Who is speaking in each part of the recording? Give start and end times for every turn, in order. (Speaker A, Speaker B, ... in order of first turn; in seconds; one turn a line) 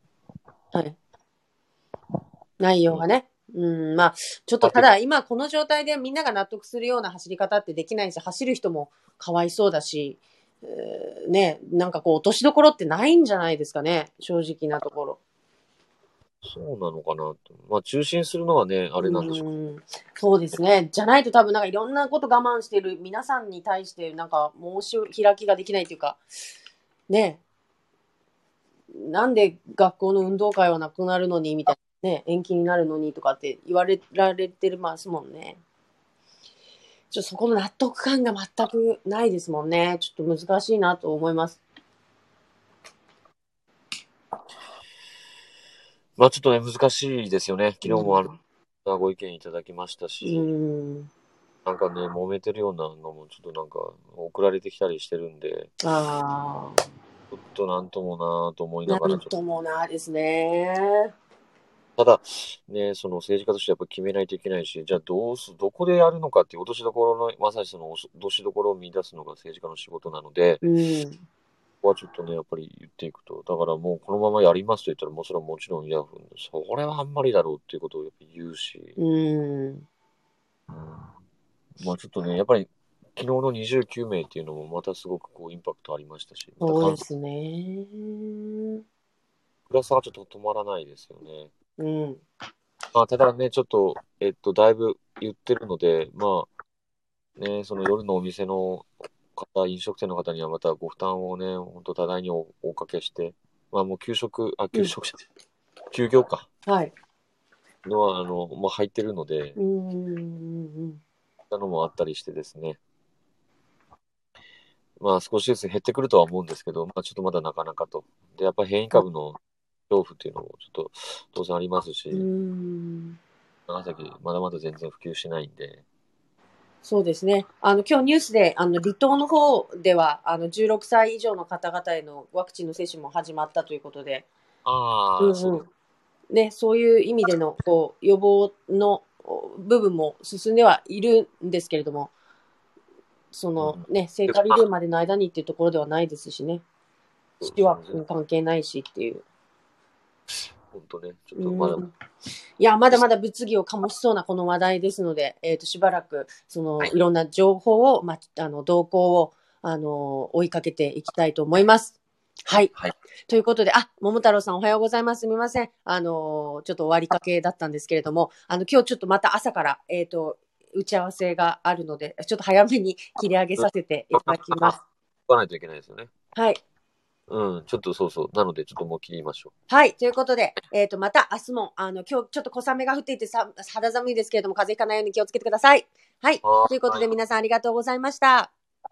Speaker A: 2.6-15.2
Speaker B: 4.6-4.9
Speaker B: 16.4-19.4
Speaker A: 19.0-26.2
Speaker A: 27.1-27.4
Speaker A: 28.9-35.6
Speaker A: 37.1-41.6
Speaker B: 46.2-48.3
Speaker A: 47.8-48.3
Speaker B: 48.8-50.5
Speaker A: 50.2-51.1
Speaker B: 51.6-55.7
Speaker A: 55.8-56.8
Speaker B: 57.3-59.3
Speaker A: 58.9-61.1
Speaker B: 62.0-70.6
Speaker A: 70.6-71.2
Speaker B: 71.8-79.0
Speaker A: 79.0-79.8
Speaker B: 80.7-81.1
Speaker B: 81.8-87.0
Speaker A: 86.6-88.8
Speaker B: 89.7-91.5
Speaker A: 91.8-92.2
Speaker B: 92.9-96.5
Speaker B: 97.4-105.2
Speaker B: 105.9-106.5
Speaker A: 106.7-106.9
Speaker B: 107.8-109.6
Speaker A: 109.5-111.0
Speaker B: 111.5-112.8
Speaker B: 115.0-119.4
Speaker B: 119.9-122.2
Speaker A: 122.1-123.2
Speaker B: 123.7-125.8
Speaker A: 126.8-134.3
Speaker B: 134.6-135.6
Speaker A: 135.2-135.7
Speaker A: 136.3-142.1
Speaker A: 143.3-146.6
Speaker B: 143.6-144.6
Speaker B: 147.4-148.0
Speaker A: 147.4-149.2
Speaker B: 150.7-151.8
Speaker A: 151.4-151.9
Speaker A: 152.6-162.7
Speaker A: 163.3-174.8
Speaker B: 173.6-176.1
Speaker B: 177.3-179.5
Speaker A: 179.7-188.5
Speaker B: 186.4-187.1